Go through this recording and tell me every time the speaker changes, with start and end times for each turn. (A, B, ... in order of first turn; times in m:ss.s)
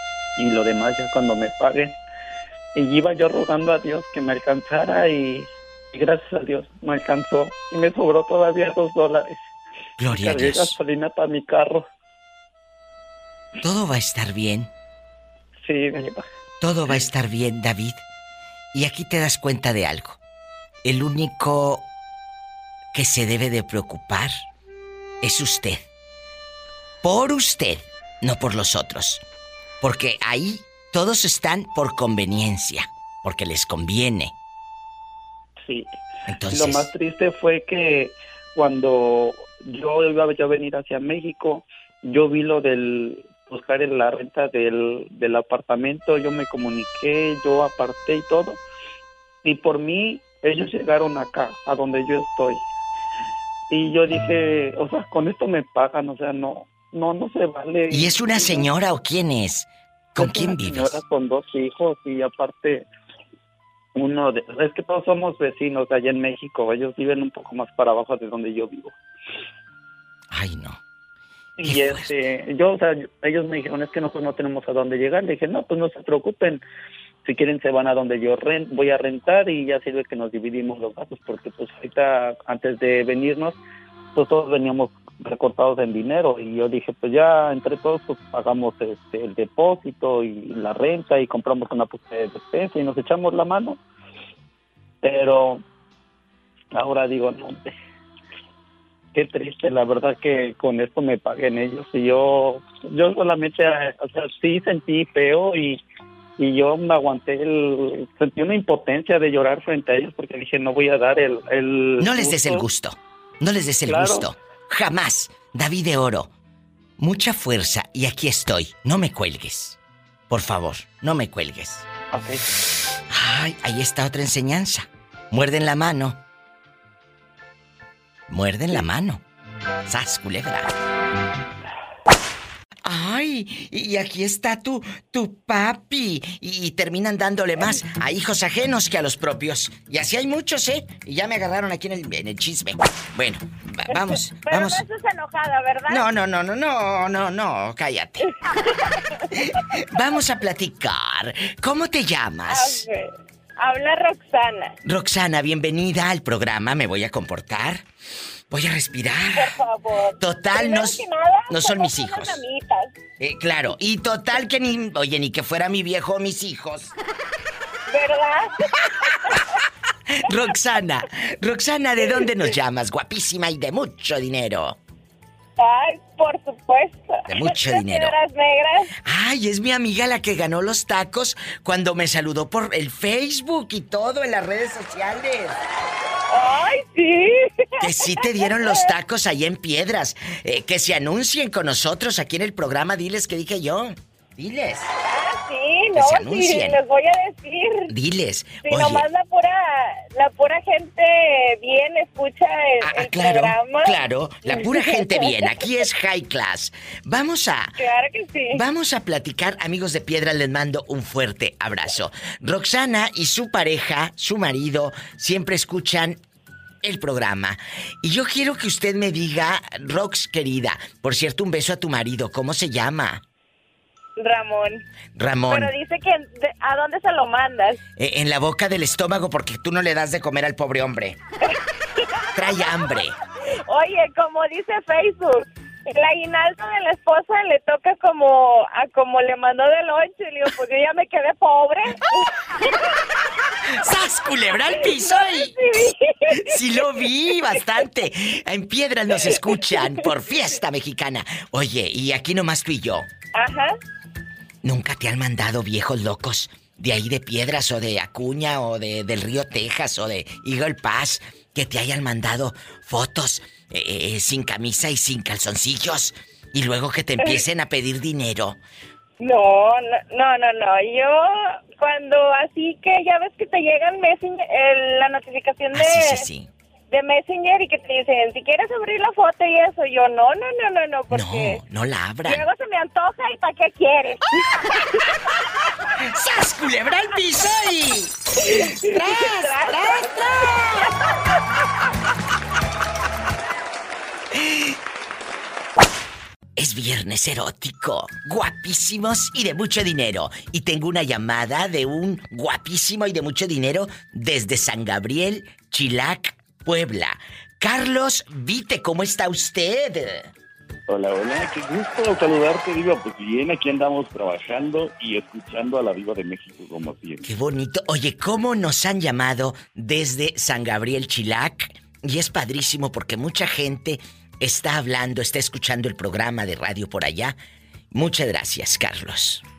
0:00.4-0:02.0 A
0:02.7-0:09.4 A
0:10.0-0:10.7 B
0:10.1-0:11.9 A
0:13.6-0:14.7 B
0:15.6-0:16.2 A
0:16.6-0:18.0 B
0:18.7-0:20.2 B
0:20.8-0:21.8 B
0:22.9-0:24.4 B
0:25.2-0:25.8 B
0:27.0-0:29.2 B
0:29.8-0:34.3 B
0:35.6-0:48.6 A
0:36.3-0:36.8 B
0:49.4-0:52.6 A
0:53.7-0:58.7 A
0:57.9-1:01.0 B
1:00.2-1:02.8 A
1:03.9-1:09.0 A
1:10.3-1:10.8 B
1:11.6-1:16.6 A
1:11.6-1:12.1 B
1:17.2-1:23.6 A
1:24.1-1:33.8 A
1:35.0-1:35.6 A
1:36.7-1:37.7 A
1:39.1-1:45.8 A
1:46.4-1:52.6 A
1:52.0-1:56.3 B
1:53.8-1:54.3 A
1:57.0-1:59.8 B
2:00.3-2:01.9 B
2:03.1-2:06.2 B
2:08.3-2:09.2 B
2:09.8-2:10.7 B
2:12.8-2:24.8 B
2:23.9-2:26.0 C
2:25.9-2:28.2 B
2:28.2-2:29.0 C
2:29.9-2:32.8 B
2:32.5-2:34.7 C
2:34.8-2:37.8 B
2:38.5-2:39.5 B
2:39.3-2:42.9 C
2:40.2-2:42.4 B
2:43.2-2:46.9 B
2:47.9-2:49.4 C
2:50.2-2:54.8 B
2:52.0-2:52.3 C
2:55.6-2:58.9 C
2:57.3-2:58.1 B
2:59.0-3:05.6 B
3:06.3-3:08.9 C
3:07.8-3:14.9 B
3:15.0-3:17.9 C
3:16.0-3:16.8 B
3:17.9-3:19.0 B
3:18.6-3:25.8 C
3:22.8-3:27.8 B
3:27.8-3:28.6 C
3:28.5-3:36.2 B
3:36.8-3:43.2 B
3:44.2-3:44.8 C
3:45.1-3:45.7 B
3:45.5-3:47.8 C
3:48.0-3:51.2 B
3:51.5-3:52.9 C
3:52.3-3:53.2 B
3:53.7-4:02.1 C
4:03.8-4:05.5 B
4:04.5-4:07.6 C
4:06.3-4:13.1 B
4:09.1-4:10.0 C
4:13.3-4:13.7 C
4:14.6-4:28.6 B
4:29.2-4:36.3 C
4:35.7-4:36.5 B
4:36.9-4:41.6 C
4:41.1-4:42.4 B
4:42.2-4:45.4 C
4:46.0-4:50.8 B
4:48.4-4:51.1 C
4:54.3-4:54.7 B
4:56.6-5:10.3 B
5:10.9-5:17.2 D
5:17.2-5:27.4 B
5:27.9-5:29.4 B